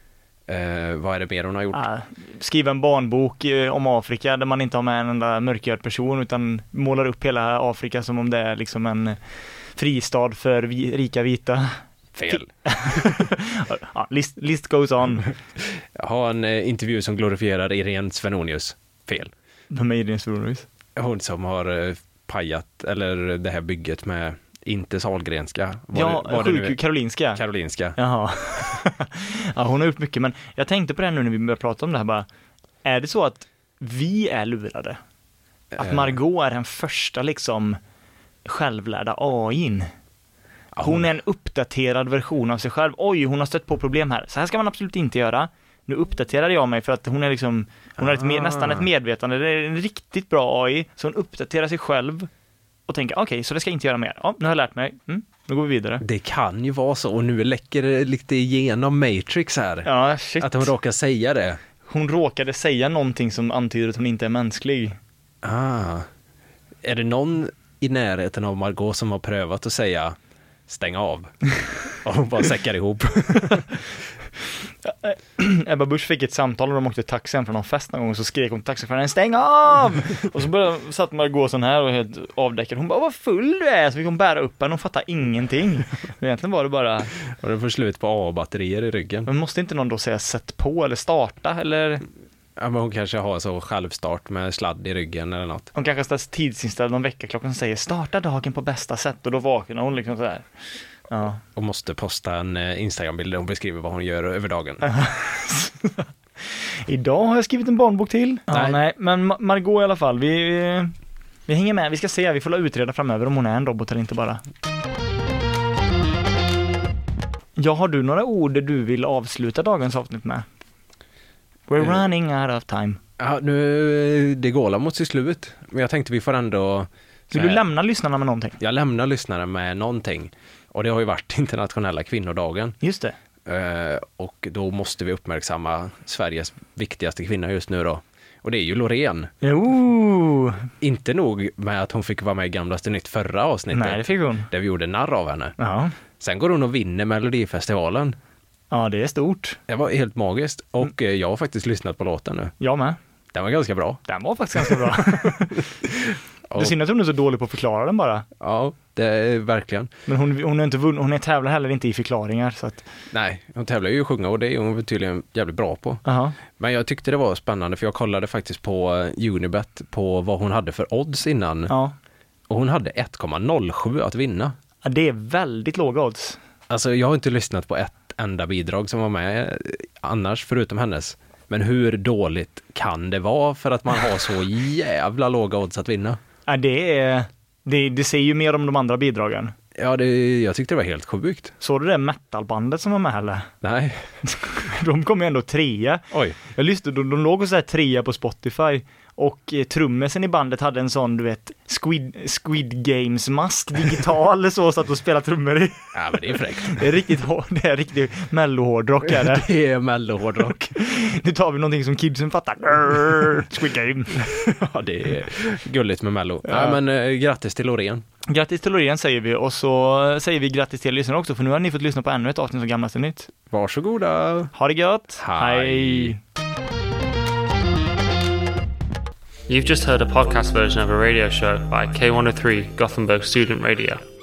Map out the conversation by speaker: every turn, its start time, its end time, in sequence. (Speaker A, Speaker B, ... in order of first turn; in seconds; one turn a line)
Speaker A: 0.5-1.8
Speaker B: 1.7-15.3
Speaker A: 12.1-13.1
Speaker A: 15.9-19.3
Speaker B: 19.7-20.6
Speaker A: 20.9-26.8
Speaker B: 25.9-27.4
Speaker A: 27.3-28.0
Speaker B: 27.9-32.2
Speaker B: 32.8-35.0
Speaker A: 35.7-36.2
Speaker B: 35.8-37.8
Speaker B: 38.4-39.9
Speaker A: 40.7-41.1
Speaker B: 40.8-52.3
Speaker A: 48.0-48.9
Speaker B: 52.9-56.0
Speaker A: 56.0-61.6
Speaker B: 59.8-60.7
Speaker B: 61.8-65.0
Speaker A: 65.4-66.1
Speaker A: 66.8-70.2
Speaker A: 70.7-73.8
Speaker B: 74.8-87.1
Speaker A: 87.3-89.3
Speaker B: 89.3-92.0
Speaker A: 92.6-95.7
Speaker B: 95.7-100.5
Speaker B: 101.1-101.4
Speaker A: 101.5-104.9
Speaker B: 104.8-110.9
Speaker A: 108.5-108.8
Speaker B: 111.5-114.4
Speaker B: 117.5-120.5
Speaker B: 121.7-123.0
Speaker A: 123.2-127.6
Speaker B: 127.3-128.6
Speaker A: 128.6-132.8
Speaker B: 132.8-133.1
Speaker A: 133.4-139.3
Speaker B: 139.4-140.7
Speaker A: 140.8-145.6
Speaker B: 143.7-144.5
Speaker B: 145.6-145.9
Speaker A: 146.2-148.2
Speaker B: 148.7-149.6
Speaker A: 149.7-152.5
Speaker B: 152.6-153.0
Speaker A: 153.3-154.0
Speaker B: 154.1-155.7
Speaker A: 156.5-156.7
Speaker B: 156.6-158.2
Speaker A: 158.4-159.9
Speaker B: 160.1-162.8
Speaker A: 163.1-171.7
Speaker B: 166.0-166.4
Speaker B: 171.7-171.9
Speaker A: 172.5-174.5
Speaker B: 174.8-176.4
Speaker A: 176.7-186.2
Speaker B: 186.5-189.5
Speaker A: 189.7-191.5
Speaker B: 191.6-193.5
Speaker A: 193.6-194.1
Speaker B: 194.2-209.5
Speaker A: 196.1-196.4
Speaker A: 205.9-206.8
Speaker A: 209.0-210.7
Speaker B: 210.7-214.2
Speaker A: 214.2-218.0
Speaker B: 216.4-216.8
Speaker B: 218.3-223.3
Speaker A: 223.5-224.5
Speaker B: 224.5-226.2
Speaker A: 225.2-226.1
Speaker C: 229.5-234.0